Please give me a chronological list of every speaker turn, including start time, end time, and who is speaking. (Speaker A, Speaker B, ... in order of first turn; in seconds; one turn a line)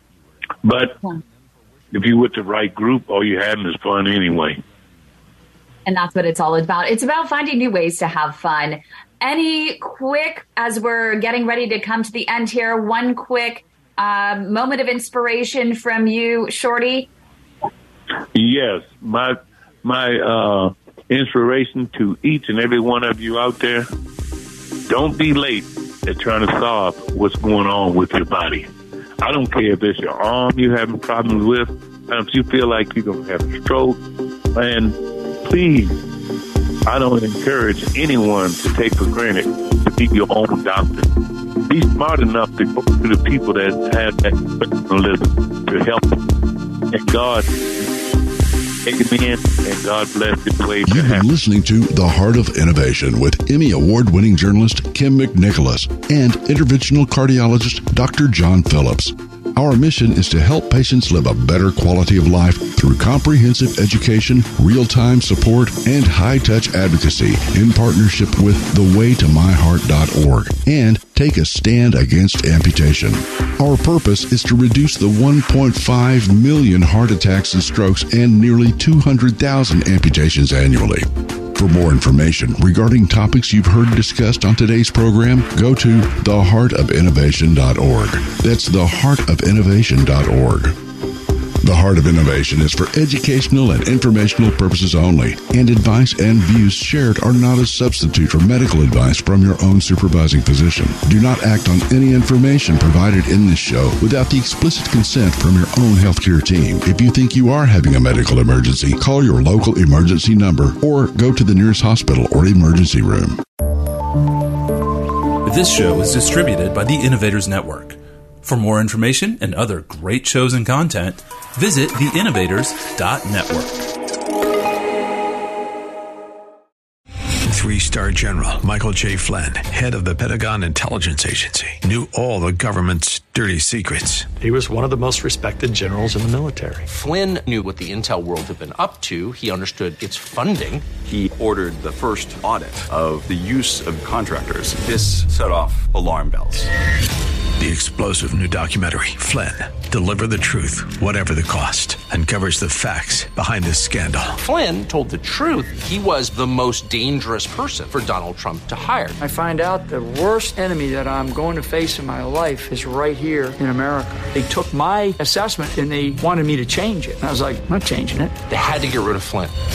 Speaker A: 0.6-1.0
Speaker A: 1.9-4.6
Speaker B: 5.8-17.1
Speaker A: 18.3-23.9
Speaker A: 24.9-28.7
Speaker A: 29.2-34.0
Speaker A: 34.5-36.0
Speaker A: 36.9-41.1
Speaker A: 41.7-46.2
Speaker A: 46.9-47.5
Speaker A: 48.8-51.2
Speaker C: 50.9-90.8
Speaker C: 91.6-113.4
Speaker D: 115.4-123.9
Speaker E: 127.5-134.3
Speaker F: 134.4-136.8
Speaker G: 136.8-140.9
Speaker H: 141.0-146.7
Speaker E: 147.6-154.4
Speaker G: 154.4-159.2
Speaker I: 159.2-168.3
Speaker G: 168.5-169.5